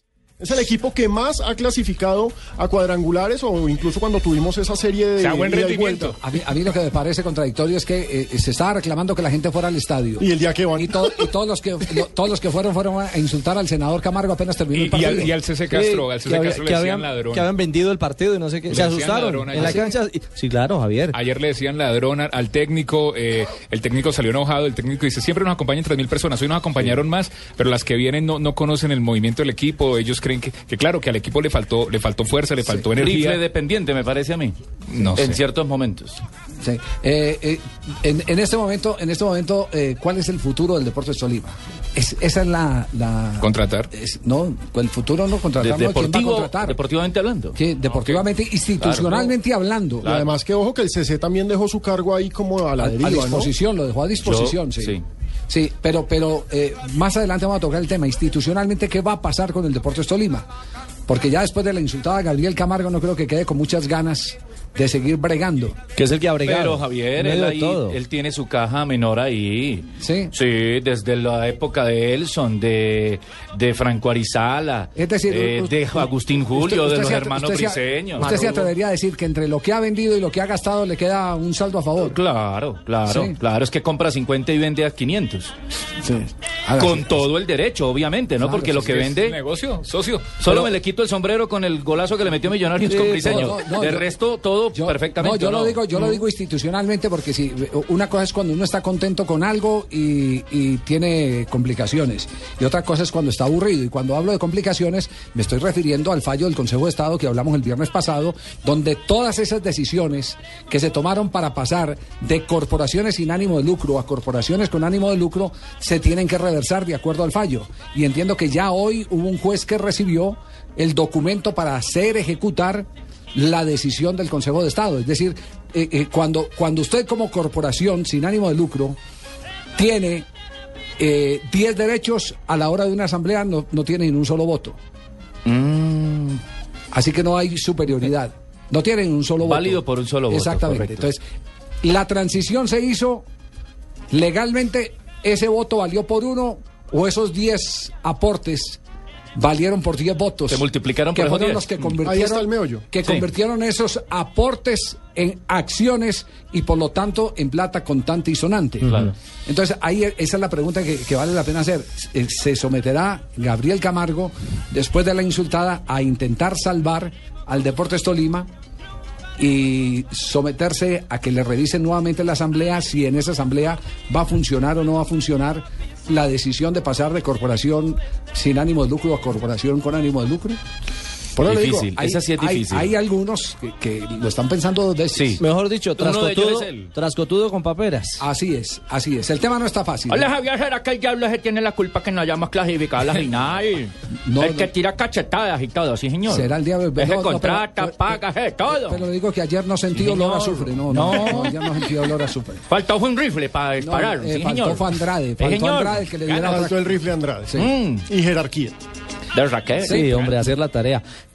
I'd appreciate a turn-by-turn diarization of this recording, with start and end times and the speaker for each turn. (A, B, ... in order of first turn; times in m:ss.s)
0:00.4-0:06.1 A
0:05.2-0:06.2 B
0:06.1-0:15.3 C
0:10.2-0:11.3 A
0:14.7-0:17.5 B
0:15.7-0:21.2 D
0:18.7-0:19.9 B
0:21.1-0:33.4 B
0:33.0-0:34.6 E
0:34.9-0:35.4 B
0:35.2-0:36.2 E
0:36.6-0:46.8 C
0:43.4-0:43.9 B
0:45.6-0:48.2 E
0:47.6-0:50.1 C
0:48.8-0:49.3 E
0:50.0-0:50.3 E
0:50.0-0:53.5 A
0:52.8-0:55.0 C
0:54.2-0:55.0 E
0:55.5-1:00.5 C
1:01.1-1:05.8 C
1:06.0-1:08.0 D
1:06.4-1:18.6 E
1:10.0-1:10.3 C
1:15.0-1:22.2 C
1:22.0-1:25.5 E
1:23.1-1:23.4 C
1:26.0-1:27.2 C
1:26.8-1:29.4 E
1:28.4-1:29.0 C
1:28.8-1:30.4 B
1:30.4-1:36.2 E
1:32.8-1:34.1 C
1:34.8-2:09.0 C
2:09.8-2:10.3 C
2:11.0-2:14.8 C
2:15.4-2:16.4 E
2:16.9-2:21.2 C
2:19.4-2:21.1 E
2:21.8-2:23.2 C
2:24.1-2:28.8 C
2:29.4-2:48.5 C
2:30.5-2:32.0 E
2:32.1-2:32.9 A
2:38.8-2:39.1 E
2:49.4-3:00.6 C
3:01.4-3:05.4 C
3:01.4-3:02.9 E
3:05.1-3:05.4 E
3:05.4-3:08.2 D
3:06.0-3:06.9 E
3:08.2-3:10.3 C
3:10.1-3:19.0 E
3:14.2-3:14.7 C
3:16.3-3:22.7 C
3:19.9-3:21.9 E
3:22.7-3:26.7 E
3:23.8-3:26.8 C
3:26.4-3:28.8 A
3:27.6-3:28.1 E
3:29.3-3:30.3 E
3:29.8-3:31.0 D
3:29.8-3:30.4 C